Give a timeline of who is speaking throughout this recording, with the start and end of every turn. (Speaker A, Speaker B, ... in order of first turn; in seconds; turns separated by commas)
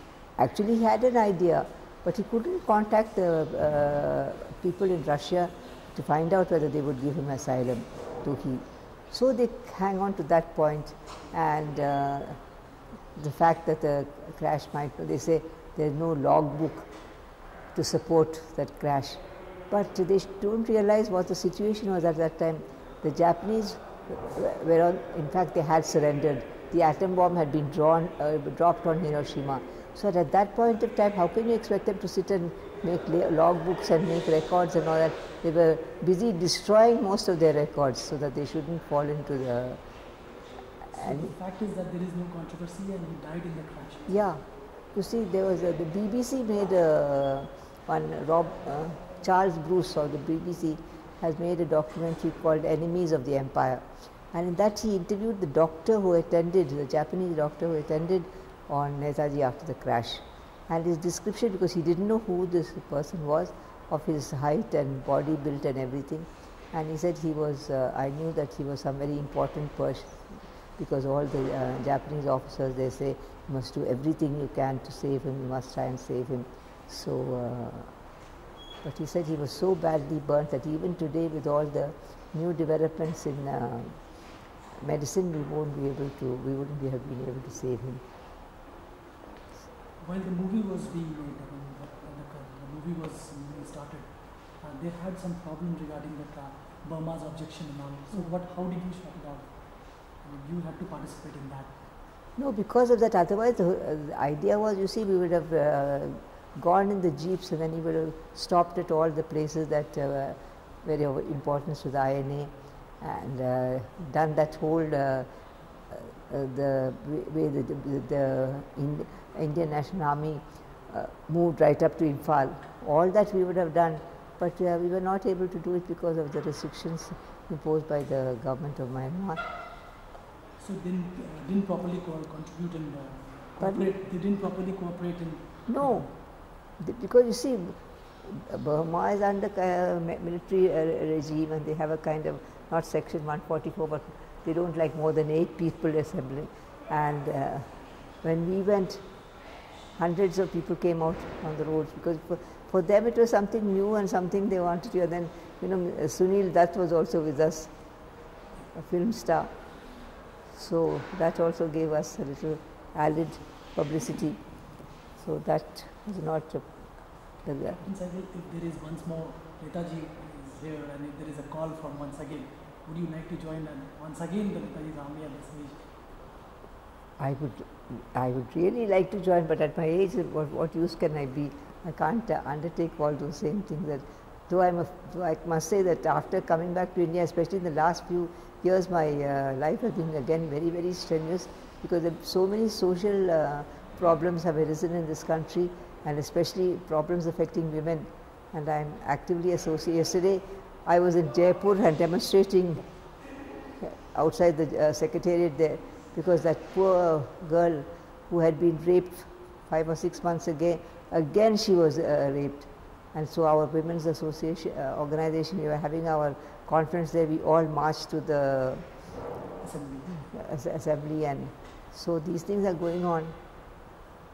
Speaker A: 0.4-12.4, Speaker A: 13.2-16.9, Speaker A: 17.7-39.8, Speaker A: 40.9-41.3, Speaker B: 40.9-44.3, Speaker A: 44.1-77.9, Speaker A: 78.8-84.1, Speaker A: 84.8-88.0, Speaker B: 90.0-101.8, Speaker A: 102.4-115.3, Speaker A: 115.9-129.4, Speaker B: 130.6-136.1, Speaker A: 133.6-133.9, Speaker A: 135.7-149.0, Speaker A: 149.9-157.7, Speaker A: 158.7-159.5, Speaker A: 160.5-164.6, Speaker A: 165.2-166.8, Speaker A: 167.4-167.8, Speaker B: 167.7-175.9, Speaker A: 177.2-202.9, Speaker A: 203.8-219.1, Speaker B: 219.6-220.3, Speaker A: 220.2-223.3